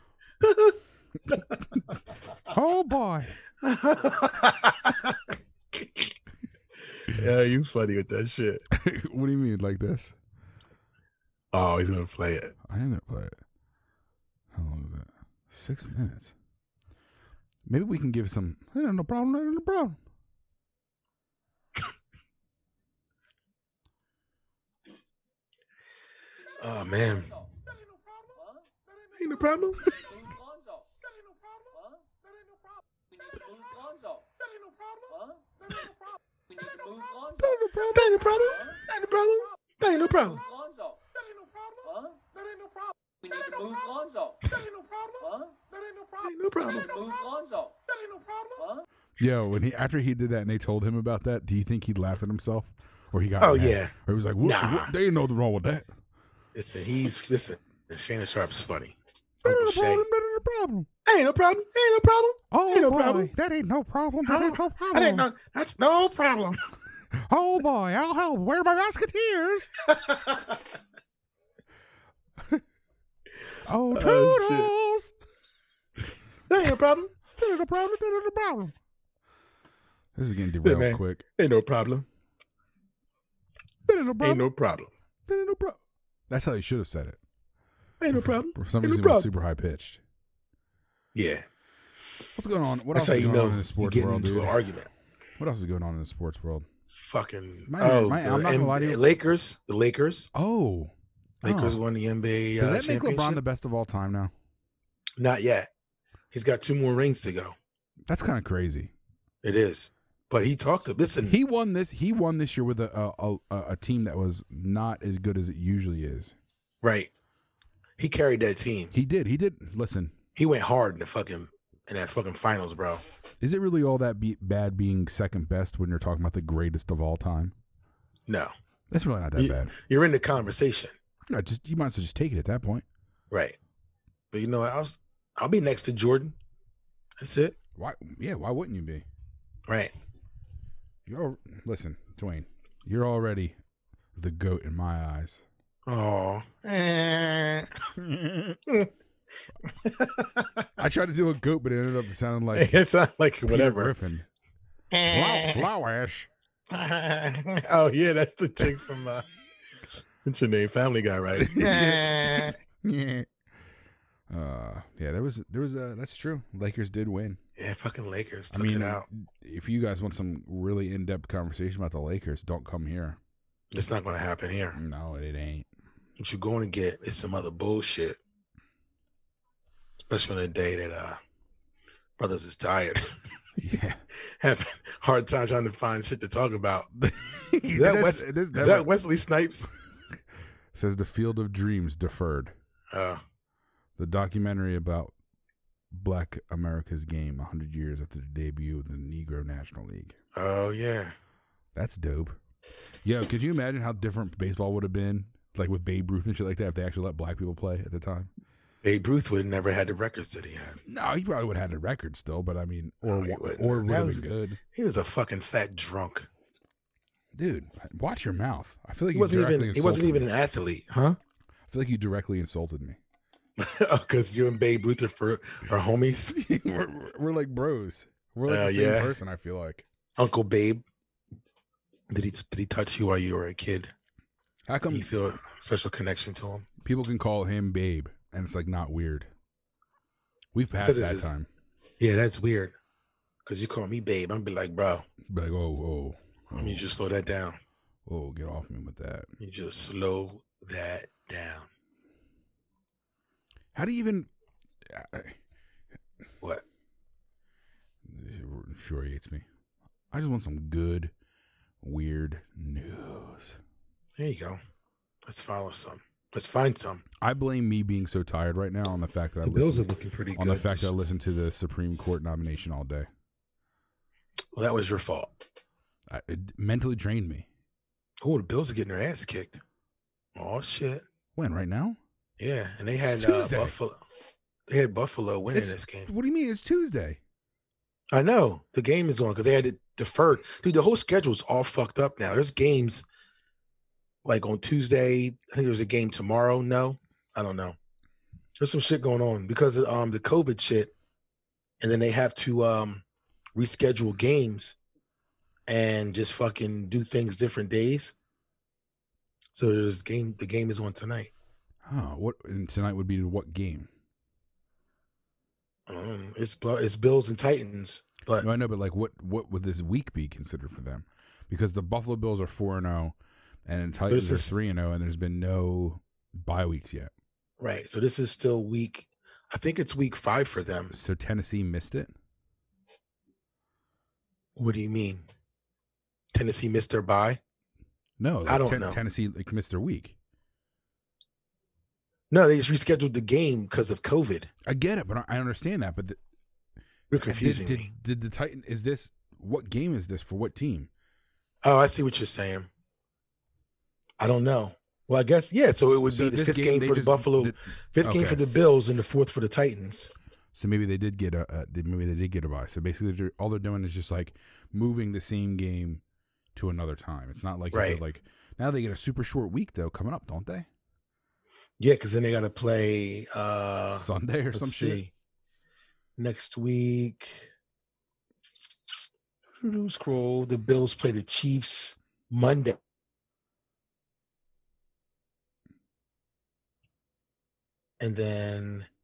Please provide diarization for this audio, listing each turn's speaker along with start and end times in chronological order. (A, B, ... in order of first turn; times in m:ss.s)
0:00.4-0:00.8 A
0:01.3-0:01.6 A
0:02.5-0:03.4 B
0:03.6-0:05.2 A
0:05.7-0:06.1 A
0:07.0-0:08.6 A
0:08.7-0:10.2 B
0:11.5-0:12.5 A
0:12.7-0:13.4 B
0:14.5-0:16.3 B
0:17.7-0:20.0 B
0:26.6-0:27.4 A
0:29.2-0:29.9 A
0:37.4-0:38.2 B
0:37.9-0:40.4 A
0:46.2-0:46.9 A
0:49.2-0:55.9 B
0:53.4-0:54.9 A
0:56.6-1:00.0 A
0:59.4-1:00.9 B
1:01.1-1:03.3 A
1:02.5-1:05.3 B
1:04.3-1:06.6 A
1:07.2-1:09.7 B
1:09.9-1:10.4 A
1:13.7-1:15.1 B
1:13.9-1:14.7 A
1:16.5-1:17.1 A
1:17.4-1:18.7 B
1:20.2-1:21.2 B
1:20.6-1:22.0 A
1:23.9-1:24.4 B
1:24.2-1:24.9 A
1:25.3-1:25.8 B
1:26.3-1:27.2 B
1:28.0-1:29.3 A
1:28.1-1:30.0 B
1:31.2-1:31.4 A
1:32.4-1:34.6 B
1:32.9-1:34.9 A
1:35.4-1:36.7 B
1:36.9-1:40.3 A
1:37.7-1:39.0 B
1:40.3-1:40.9 B
1:41.4-1:43.4 A
1:41.4-1:41.8 B
1:42.6-1:44.3 B
1:45.2-1:45.7 A
1:46.3-1:47.6 A
1:48.1-1:48.9 B
1:49.4-1:51.4 A
1:51.3-1:56.4 B
1:56.8-1:57.1 A
1:58.0-1:58.9 A
1:58.9-2:00.1 B
2:00.4-2:03.0 A
2:03.4-2:07.5 B
2:08.3-2:08.5 A
2:08.9-2:09.7 B
2:09.4-2:10.9 A
2:11.3-2:12.8 B
2:13.3-2:13.6 A
2:14.3-2:16.3 A
2:17.2-2:17.6 A
2:17.8-2:19.0 B
2:19.7-2:19.9 A
2:21.1-2:23.6 B
2:24.2-2:25.4 B
2:25.9-2:27.8 A
2:28.5-2:28.9 A
2:29.8-2:30.6 A
2:30.8-2:32.8 B
2:32.5-2:33.9 A
2:33.5-2:34.3 B
2:34.9-2:35.7 A
2:35.1-2:36.3 B
2:36.7-2:39.2 A
2:40.2-2:42.6 A
2:41.4-2:43.3 B
2:44.3-2:47.4 B
2:47.6-2:49.0 A
2:48.5-2:53.2 B
2:53.7-2:54.8 A
2:54.7-2:55.7 B
2:56.2-2:58.2 A
3:00.1-3:01.2 A
3:02.2-3:03.2 A
3:03.6-3:04.0 B
3:04.4-3:06.9 A
3:07.0-3:08.9 B
3:07.8-3:09.7 A
3:10.7-3:12.5 B
3:12.9-3:13.2 A
3:14.0-3:15.1 B
3:15.9-3:20.2 B
3:20.4-3:21.2 A
3:21.8-3:22.4 B
3:23.0-3:28.3 B
3:28.8-3:30.8 A
3:30.9-3:34.6 B
3:33.0-3:36.3 A
3:37.4-3:40.3 B
3:39.1-3:41.2 A
3:41.7-3:43.0 B
3:43.6-3:46.3 A
3:46.3-3:49.8 B
3:48.5-3:49.2 A
3:50.2-3:50.8 A
3:52.1-3:53.9 A
3:54.7-3:55.1 B
3:54.9-3:56.7 A
3:56.8-3:59.3 B
4:00.5-4:01.5 B
4:00.8-4:01.3 A
4:02.0-4:02.8 A
4:03.5-4:05.1 A
4:05.3-4:06.8 B
4:06.6-4:07.6 A
4:08.1-4:09.3 B
4:09.4-4:11.7 A
4:13.8-4:14.3 B
4:14.9-4:15.4 B
4:18.1-4:19.4 B
4:20.1-4:21.1 B
4:21.8-4:23.6 B
4:24.2-4:24.6 A
4:25.3-4:27.0 A
4:27.2-4:33.1 B
4:29.4-4:30.9 A
4:34.5-4:35.3 A
4:36.1-4:37.5 B
4:38.2-4:39.6 A
4:40.4-4:41.0 A
4:41.4-4:42.0 B
4:42.4-4:44.0 A
4:43.0-4:43.8 B
4:44.7-4:46.1 A
4:45.5-4:47.2 B
4:48.1-4:53.0 A
4:54.2-4:57.8 A
4:58.6-5:00.9 A
5:01.8-5:03.0 A
5:03.6-5:04.8 A
5:05.7-5:08.1 A
5:09.5-5:11.3 A
5:11.8-5:13.9 B
5:15.9-5:18.5 A
5:18.4-5:23.2 B
5:23.7-5:27.1 B
5:24.1-5:24.6 A
5:27.6-5:30.9 A
5:30.5-5:32.1 B
5:34.6-5:35.2 A
5:36.3-5:37.4 A
5:38.2-5:40.2 B
5:38.5-5:39.0 A
5:42.3-5:44.5 A
5:44.7-5:46.2 B
5:47.1-5:47.9 A
5:47.2-5:50.9 B
5:51.6-5:52.7 A
5:54.2-6:00.1 A
5:56.1-5:58.4 B
6:00.5-6:06.0 B
6:06.6-6:10.7 B
6:07.7-6:08.0 A
6:11.8-6:15.1 A
6:13.9-6:15.0 B
6:16.2-6:17.5 A
6:19.6-6:22.8 A
6:28.0-6:28.9 A